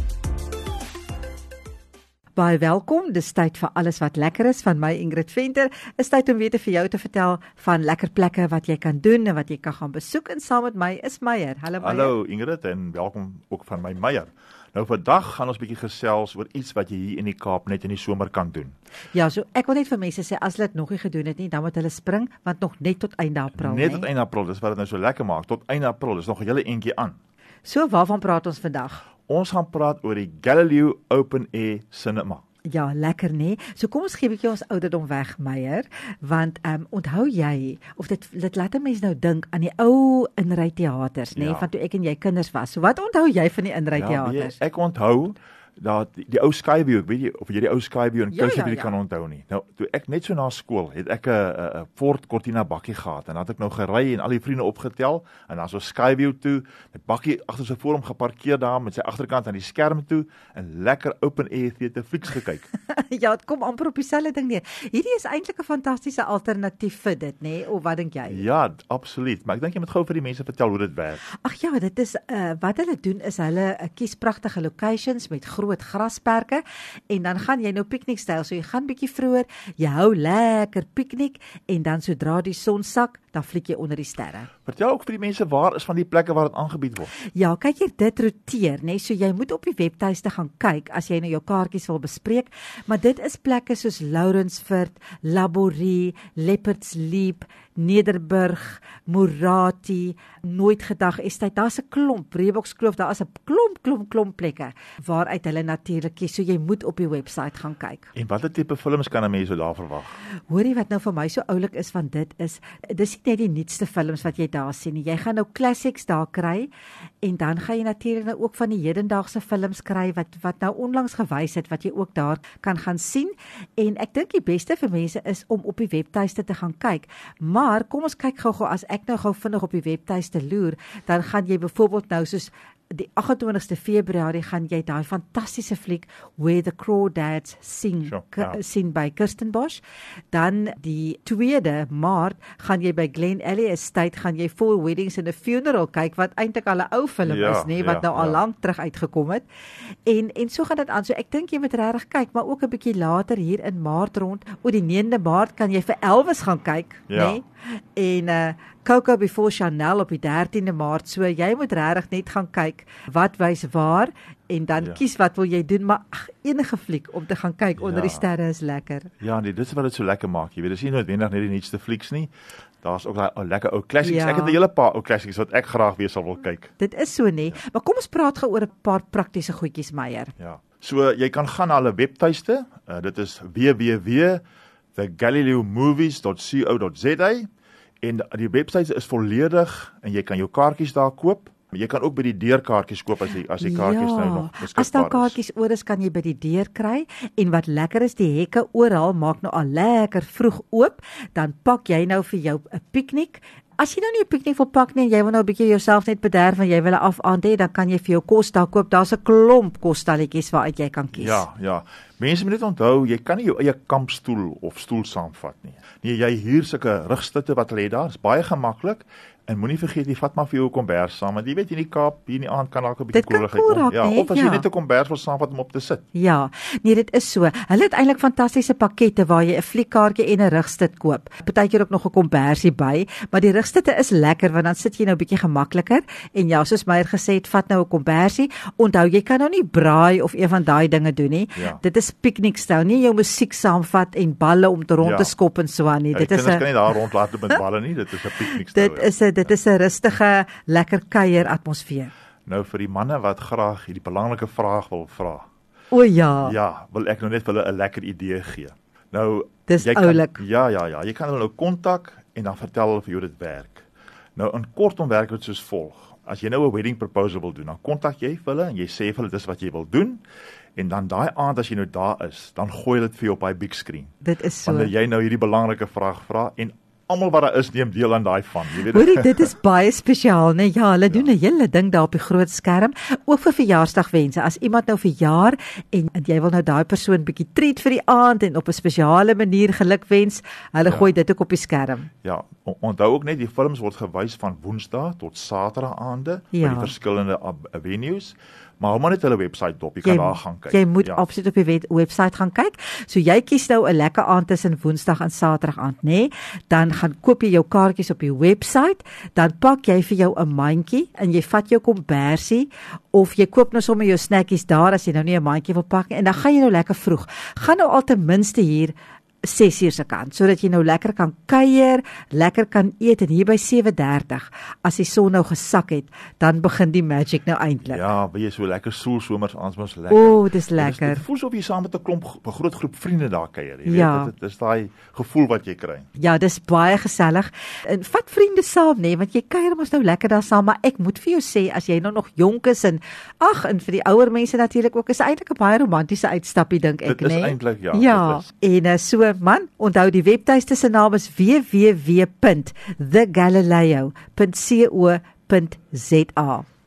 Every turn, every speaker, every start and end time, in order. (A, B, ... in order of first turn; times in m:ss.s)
0:02.4-0:12.2 A
0:11.8-0:18.7 B
0:19.1-0:24.1 A
0:23.6-0:27.2 B
0:27.6-0:29.0 A
0:29.3-0:32.4 B
0:32.7-0:44.6 A
0:41.3-0:41.7 B
0:44.0-1:02.7 B
0:48.3-0:48.9 A
1:02.8-1:08.5 A
1:08.3-1:11.2 B
1:11.4-1:24.5 A
1:24.7-1:27.1 B
1:27.3-1:48.1 A
1:48.2-1:50.2 B
1:50.5-1:56.7 A
1:57.2-2:19.8 A
2:18.0-2:18.6 B
2:20.3-2:29.5 A
2:27.2-2:28.4 B
2:30.1-2:49.1 A
2:37.1-2:37.4 B
2:47.8-2:48.2 B
2:49.2-2:52.3 B
2:52.8-2:56.7 B
2:54.0-2:54.6 A
2:56.8-3:00.3 A
3:00.4-3:04.4 B
3:05.0-3:07.5 B
3:08.0-3:15.4 B
3:13.6-3:31.5 A
3:31.1-3:46.0 B
3:43.1-3:44.7 A
3:46.2-4:07.6 A
4:05.0-4:05.3 B
4:06.1-4:09.5 B
4:08.4-4:12.1 A
4:12.5-4:15.5 B
4:15.9-4:16.6 A
4:16.4-4:23.8 B
4:19.7-4:20.4 A
4:24.4-4:30.2 B
4:30.8-4:34.1 B
4:34.2-4:34.9 A
4:34.6-4:39.5 B
4:38.8-4:52.1 A
4:50.8-4:51.1 B
4:52.2-5:01.2 B
4:56.5-4:56.9 A
5:00.0-5:28.0 A
5:27.9-5:36.1 B
5:30.1-5:31.2 A
5:33.9-5:34.3 A
5:36.2-5:56.7 A
5:47.0-5:48.5 B